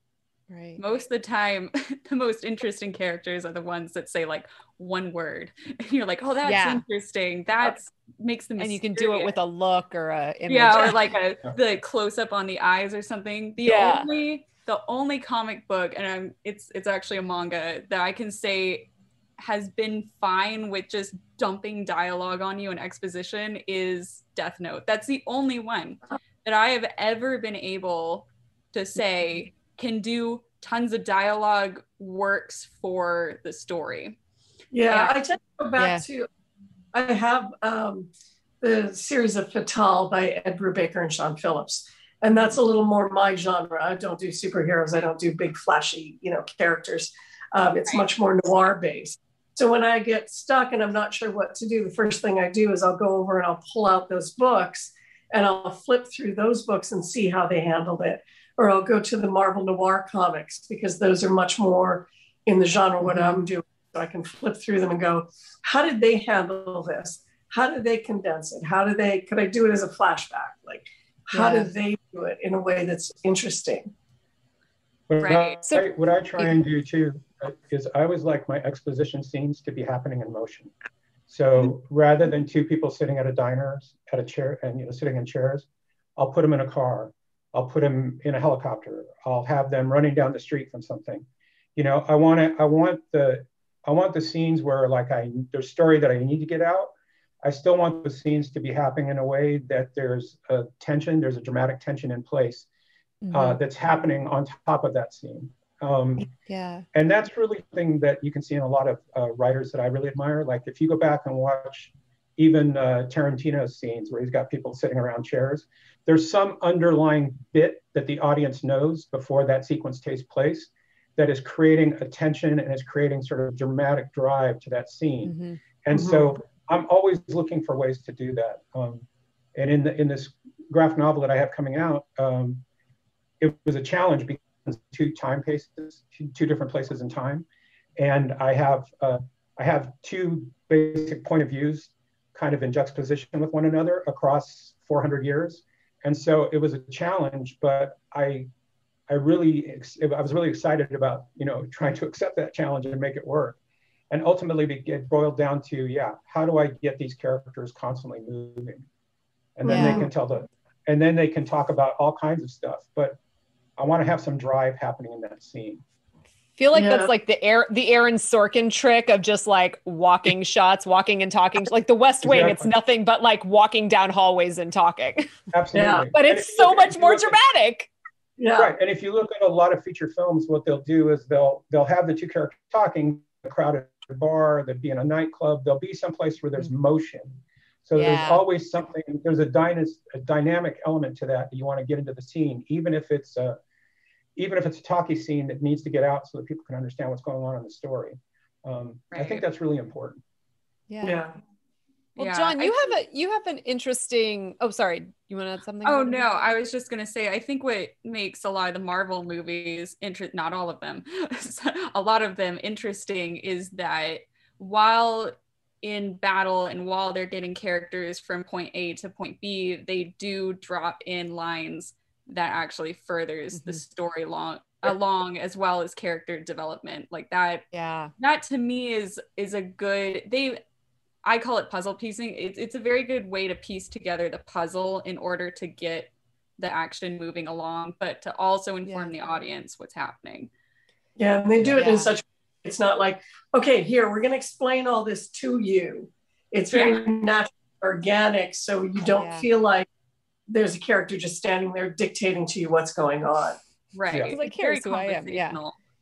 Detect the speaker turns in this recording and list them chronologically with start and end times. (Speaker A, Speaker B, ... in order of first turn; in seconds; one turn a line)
Speaker A: 0.5-0.8
Speaker B: 0.8-9.3
Speaker A: 6.4-6.8
Speaker A: 8.6-11.0
Speaker B: 10.5-34.2
Speaker A: 13.6-14.1
Speaker C: 34.7-36.3
Speaker B: 34.9-35.1
Speaker A: 35.8-36.0
Speaker C: 36.9-38.1
Speaker C: 38.6-73.9
Speaker A: 63.0-63.4
Speaker A: 71.3-71.7
Speaker D: 75.1-80.7
Speaker B: 75.2-75.6
Speaker A: 75.6-76.6
Speaker D: 81.3-96.9
Speaker D: 97.4-102.7
Speaker A: 103.2-103.6
Speaker D: 103.3-106.3
Speaker A: 106.5-106.8
Speaker D: 106.9-132.6
Speaker A: 125.2-125.6
Speaker C: 125.9-126.3
Speaker D: 133.4-137.4
Speaker D: 138.0-148.5
Speaker D: 149.1-153.6
Speaker D: 154.1-158.8
Speaker D: 159.6-163.2
Speaker C: 159.6-160.1
Speaker A: 159.7-160.1
Speaker D: 163.8-165.8
Speaker A: 166.6-175.3
Speaker C: 166.7-167.1
Speaker D: 172.2-172.7
Speaker D: 175.5-177.4
Speaker C: 175.7-176.1
Speaker A: 176.1-177.9
Speaker C: 178.4-178.7
Speaker D: 178.6-193.6
Speaker A: 187.9-188.4
Speaker D: 194.3-200.2
Speaker B: 199.1-199.4
Speaker A: 200.9-201.2
Speaker C: 201.0-201.3
Speaker A: 202.2-206.3
Speaker B: 202.2-202.9
Speaker B: 205.8-227.6
Speaker A: 223.5-223.8
Speaker A: 227.7-228.1
Speaker B: 228.2-230.6
Speaker B: 231.2-240.5
Speaker A: 238.8-239.1
Speaker C: 241.2-249.9
Speaker A: 241.7-242.2
Speaker B: 246.7-247.0
Speaker A: 249.2-249.5
Speaker C: 250.5-253.6
Speaker B: 253.9-255.8
Speaker D: 254.1-254.4
Speaker A: 254.3-255.6